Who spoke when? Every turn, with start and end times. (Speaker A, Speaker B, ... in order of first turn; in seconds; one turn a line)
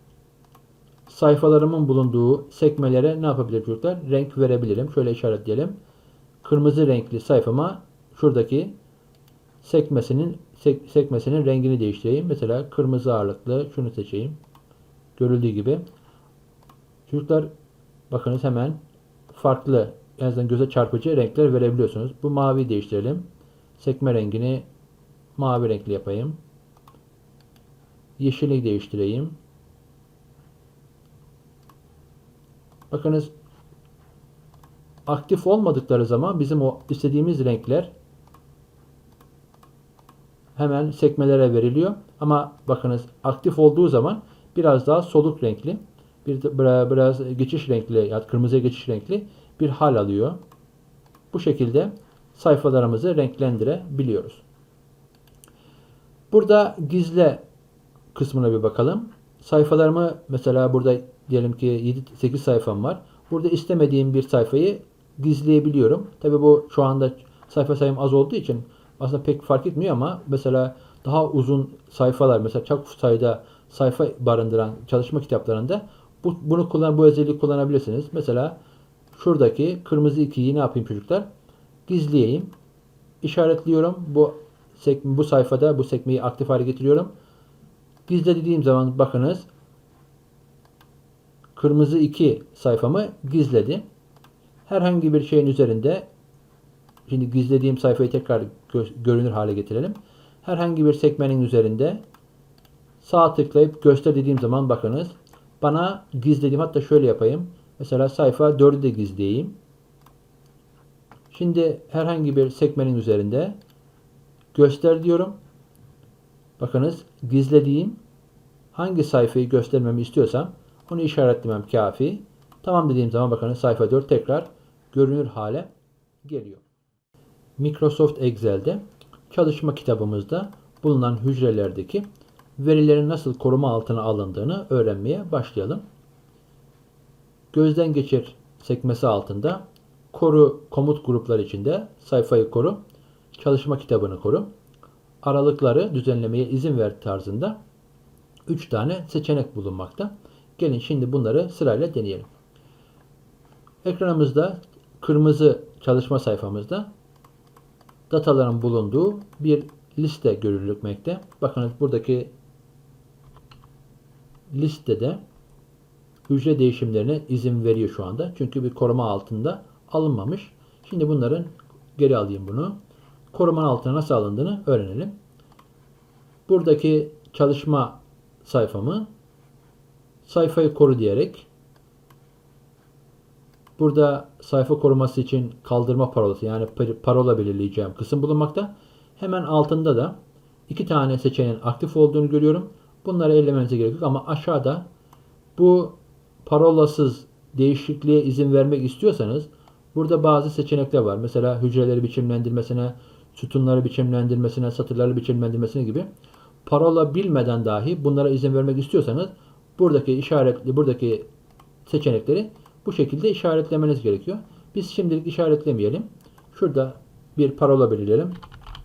Speaker A: 1.1-5.8
Speaker A: 6.4-8.7
Speaker A: 9.6-14.4
Speaker A: 15.2-15.8
Speaker A: 17.1-17.5
Speaker A: 18.1-18.8
Speaker A: 19.3-24.7
Speaker A: 25.4-26.4
Speaker A: 28.2-29.4
Speaker A: 32.9-33.3
Speaker A: 35.0-37.9
Speaker A: 40.5-50.4
Speaker A: 51.3-54.4
Speaker A: 56.3-57.4
Speaker A: 58.1-78.6
Speaker A: 79.1-81.3
Speaker A: 81.9-82.5
Speaker A: 83.2-87.1
Speaker A: 88.1-89.5
Speaker A: 91.5-93.8
Speaker A: 94.7-96.1
Speaker A: 97.1-102.0
Speaker A: 103.0-109.5
Speaker A: 111.3-113.6
Speaker A: 114.5-115.3
Speaker A: 116.6-118.0
Speaker A: 118.7-125.7
Speaker A: 126.2-126.6
Speaker A: 127.6-132.1
Speaker A: 132.6-135.8
Speaker A: 137.5-142.8
Speaker A: 143.3-144.5
Speaker A: 145.2-147.6
Speaker A: 148.5-152.3
Speaker A: 153.8-156.9
Speaker A: 158.1-162.3
Speaker A: 164.5-165.2
Speaker A: 166.3-172.8
Speaker A: 173.3-175.1
Speaker A: 176.5-179.1
Speaker A: 180.2-181.5
Speaker A: 183.8-190.2
Speaker A: 190.7-194.8
Speaker A: 195.6-206.1
Speaker A: 206.6-211.3
Speaker A: 211.8-218.4